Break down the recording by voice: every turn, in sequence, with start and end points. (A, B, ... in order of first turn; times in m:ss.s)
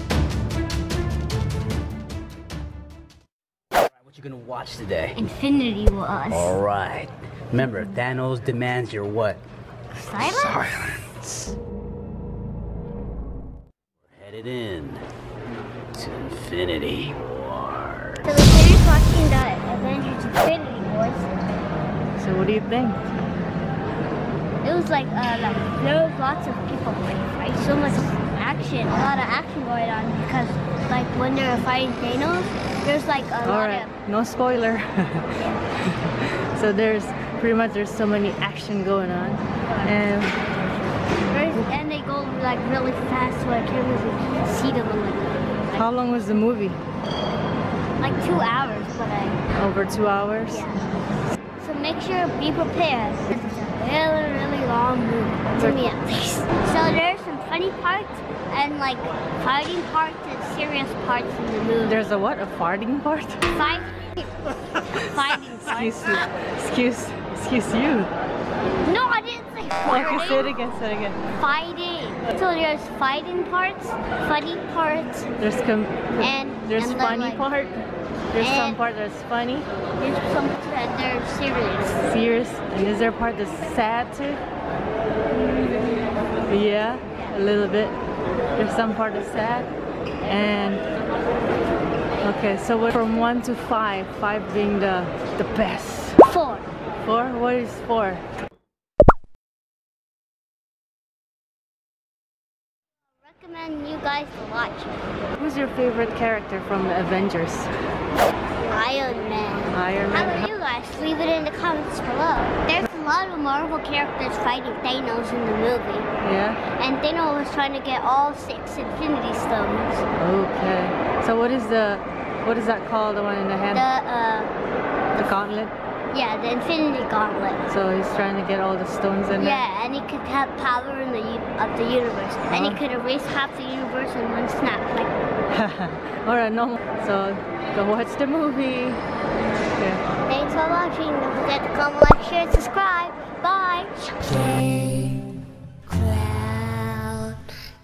0:04.0-0:05.2 A
0:05.2-0:06.6 B
0:06.3-0:09.4 A
0:09.9-0:10.9 B
0:10.2-0:11.5 A
0:14.1-0:15.0 A
0:15.9-0:18.3 A
0:18.2-0:21.3 B
0:22.2-0:23.0 C
0:24.6-0:33.9 B
0:33.4-0:40.4 C
0:39.6-0:46.2 B
0:45.8-0:46.8 C
0:48.0-0:49.4 B
0:49.6-0:50.6 C
0:50.4-0:50.9 B
0:51.6-1:02.1 B
0:55.6-0:55.9 C
1:01.8-1:03.6 C
1:03.5-1:06.4 B
1:04.9-1:08.1 C
1:08.8-1:10.6 B
1:09.8-1:11.2 C
1:11.2-1:15.3 B
1:15.4-1:19.7 C
1:16.2-1:17.5 B
1:18.4-1:18.8 B
1:20.0-1:22.1 B
1:22.0-1:24.4 C
1:26.5-1:27.9 C
1:28.6-1:29.7 C
1:30.2-1:30.8 C
1:32.2-1:36.2 C
1:36.2-1:36.7 B
1:37.0-1:38.2 C
1:43.2-1:45.1 B
1:45.4-1:47.7 C
1:48.6-1:56.1 B
1:49.7-1:50.5 C
1:56.2-1:56.6 C
1:56.6-2:00.0 B
2:00.2-2:03.9 C
2:03.7-2:04.5 B
2:05.2-2:05.7 C
2:06.1-2:07.7 B
2:07.7-2:09.6 C
2:09.3-2:15.1 B
2:12.5-2:12.8 C
2:15.5-2:19.0 C
2:19.8-2:20.0 C
2:20.2-2:25.2 B
2:25.9-2:27.5 B